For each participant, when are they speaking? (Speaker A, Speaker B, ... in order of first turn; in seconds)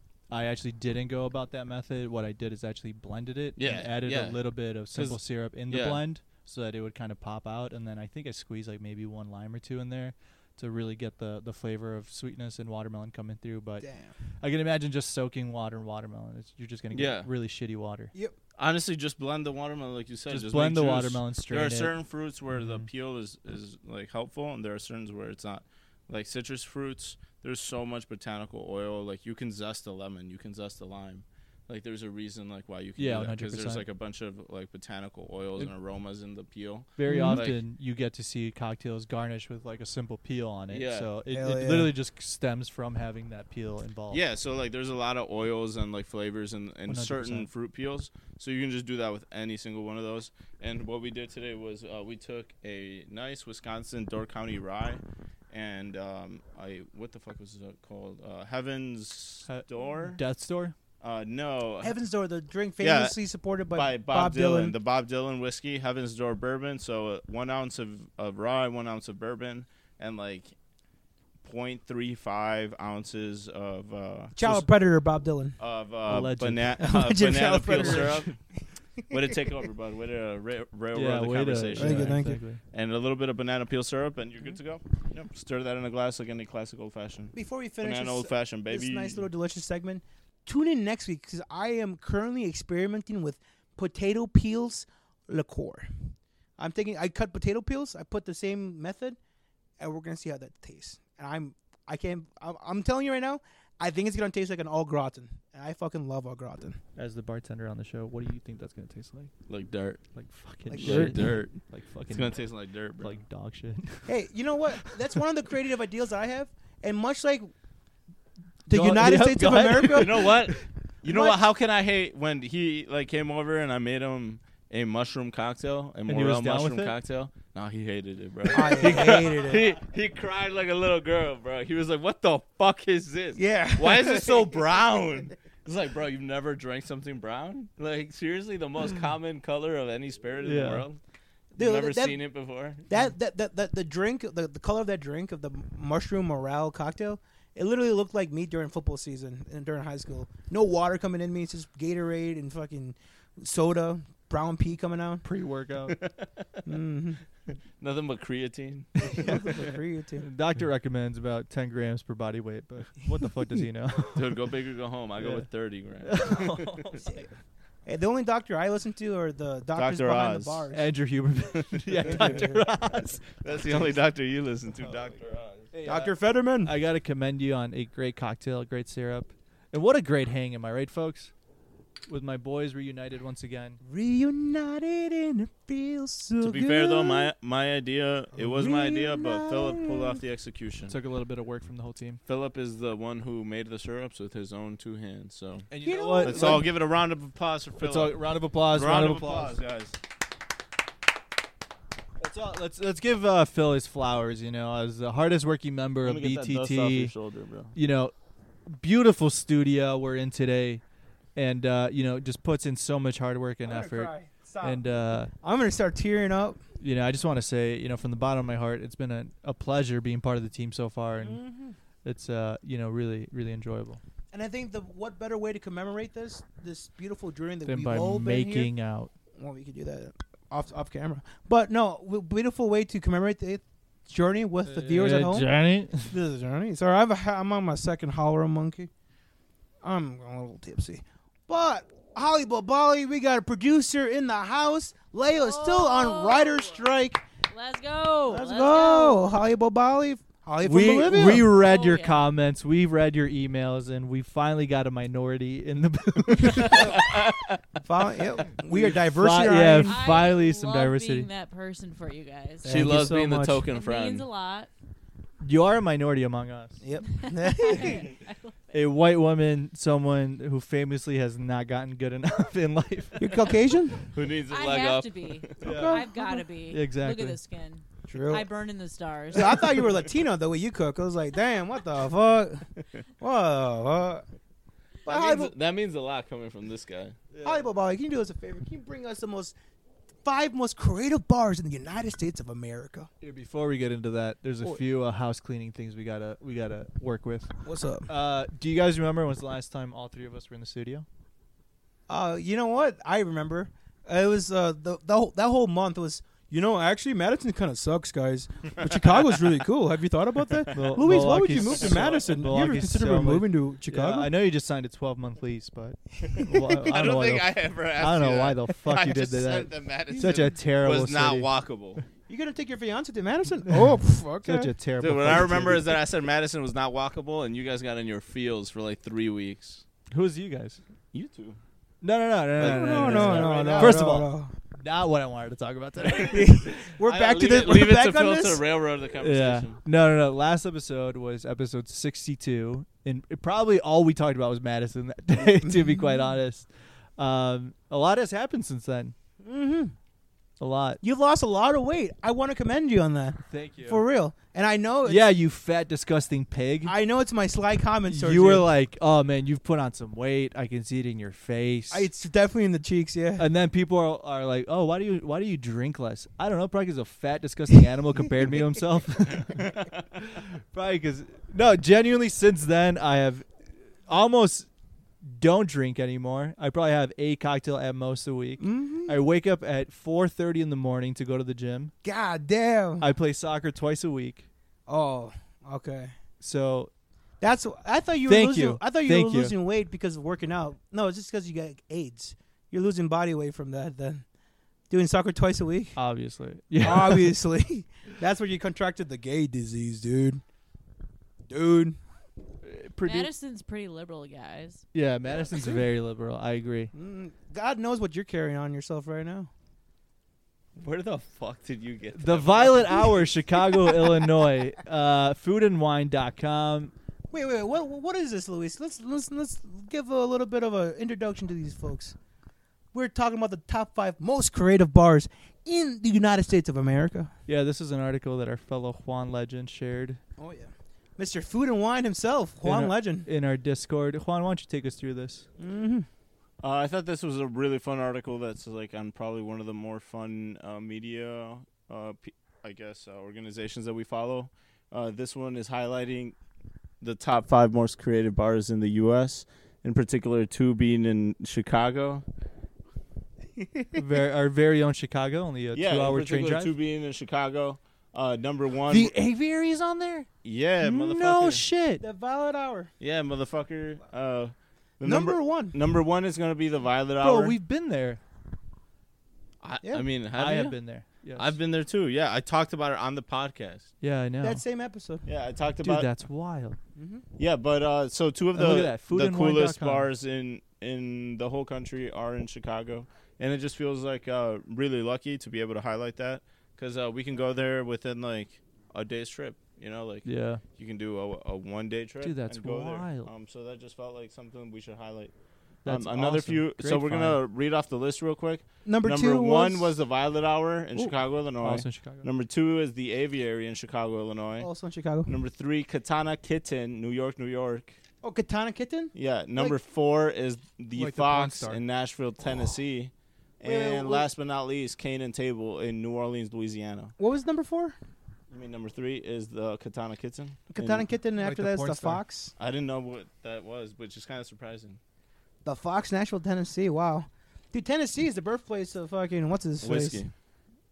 Speaker A: 0.3-13.9, 14.4-18.1, 20.3-21.9, 22.6-22.9, 33.0-33.9, 37.0-44.2, 46.9-47.5, 59.5-60.8, 76.1-76.8, 77.7-78.1, 80.9-82.6, 107.0-109.3, 110.1-112.4, 113.0-114.1, 114.7-115.1, 118.7-120.6, 126.1-126.9, 140.4-140.8, 155.2-156.0, 159.0-164.2, 165.2-165.5, 166.0-167.3, 170.7-173.2, 175.7-181.3, 182.1-183.8, 190.9-192.2, 195.7-196.6, 197.8-199.6, 202.2-207.1, 207.7-208.1, 208.7-210.8, 211.4-215.3, 216.8-221.4, 222.1-224.0, 227.7-229.1, 234.7-236.1, 250.6-257.1, 258.7-261.3, 265.4-266.8, 268.7-273.4, 275.6-276.1, 276.7-277.4, 287.3-287.7, 293.2-297.5, 298.1-301.1, 310.7-322.0, 323.6-325.9, 330.1-330.8, 332.0-337.0, 339.2-349.1, 350.6-351.0, 353.5-354.0, 355.1-356.9, 358.1-362.1, 363.4-373.5, 374.1-374.7, 375.2-381.9, 383.0-384.5, 386.4-386.9, 388.3-389.5, 396.0-397.4, 402.6-403.3, 404.9-406.9, 412.1-416.9, 427.5-430.2, 432.6-435.5, 453.9-456.7, 458.9-460.3, 460.8-462.0, 467.2-468.2, 470.4-471.6, 474.0-474.6, 475.8-476.8, 478.6-480.1, 490.2-490.6, 492.2-493.3, 495.9-497.4, 501.6-502.3, 510.9-511.8, 521.4-522.2
Speaker B: 3.6-6.0, 16.9-17.3, 18.6-37.6, 40.7-41.1, 44.1-60.2, 61.0-61.9, 62.8-63.1, 63.7-70.5, 71.4-74.4, 75.6-78.4, 79.1-89.3, 109.5-110.0, 110.8-111.5, 112.1-113.2, 119.7-141.0, 141.6-142.9, 155.9-156.6, 157.8-158.9, 164.1-167.0, 169.8-170.7, 171.9-172.4, 173.2-175.7, 186.4-191.0, 192.2-195.7, 196.2-200.0, 206.0-207.7, 256.6-257.6, 262.7-264.3, 274.1-275.7, 285.1-287.2, 311.7-312.4, 316.2-322.0, 325.0-329.9, 331.1-331.6, 332.6-334.0, 336.1-336.4, 337.0-339.8, 369.6-370.0, 410.8-413.1, 436.6-446.4, 447.0-452.2, 455.7-459.1, 460.4-461.6, 463.0-467.6, 469.6-470.8, 471.4-473.9, 475.2-476.1, 477.4-495.3, 495.9-504.7, 505.3-508.0, 509.1-517.1, 518.5-521.1, 522.6-525.0, 529.8-530.3
Speaker C: 13.8-14.1, 37.1-37.5, 41.3-41.9, 61.8-64.8, 74.3-75.6, 76.8-78.4, 79.1-79.4, 81.8-82.4, 87.3-99.2, 99.8-106.8, 110.7-111.3, 114.1-117.5, 118.7-120.4, 121.0-121.4, 128.5-129.7, 133.4-134.5, 141.5-142.2, 142.9-155.2, 156.6-157.2, 159.0-160.2, 167.9-170.9, 172.0-172.7, 175.8-176.8, 183.8-187.3, 188.4-190.2, 195.8-196.7, 213.6-216.6, 221.2-221.8, 224.3-228.7, 229.4-235.5, 236.1-238.9, 239.8-247.2, 248.3-251.5, 257.8-260.1, 262.6-263.6, 266.8-268.1, 273.2-274.0, 275.6-276.4, 278.1-278.5, 279.3-282.7, 283.2-284.2, 285.1-285.5, 287.4-289.6, 290.2-293.1, 297.6-298.1, 302.1-314.3, 322.3-324.7, 332.6-334.5, 336.1-338.6, 345.4-346.2, 349.4-349.9, 351.0-355.3, 356.9-358.7, 361.9-363.5, 378.6-379.2, 382.0-383.1, 384.9-386.1, 387.4-394.2, 394.9-396.0, 396.8-400.4, 401.5-402.0, 405.4-405.8, 406.9-409.5, 417.3-422.1, 422.9-427.3, 430.4-433.3, 435.6-436.1, 462.0-462.9, 465.0-465.8, 474.4-475.3, 477.0-477.2, 498.9-499.9, 504.6-505.3, 508.2-509.8, 513.6-514.3, 517.2-517.9, 520.7-522.5, 525.6-530.2
Speaker D: 245.3-246.8, 247.5-249.4, 251.3-252.2, 259.9-263.0, 263.6-264.7, 267.1-268.5, 274.5-279.9, 403.0-404.9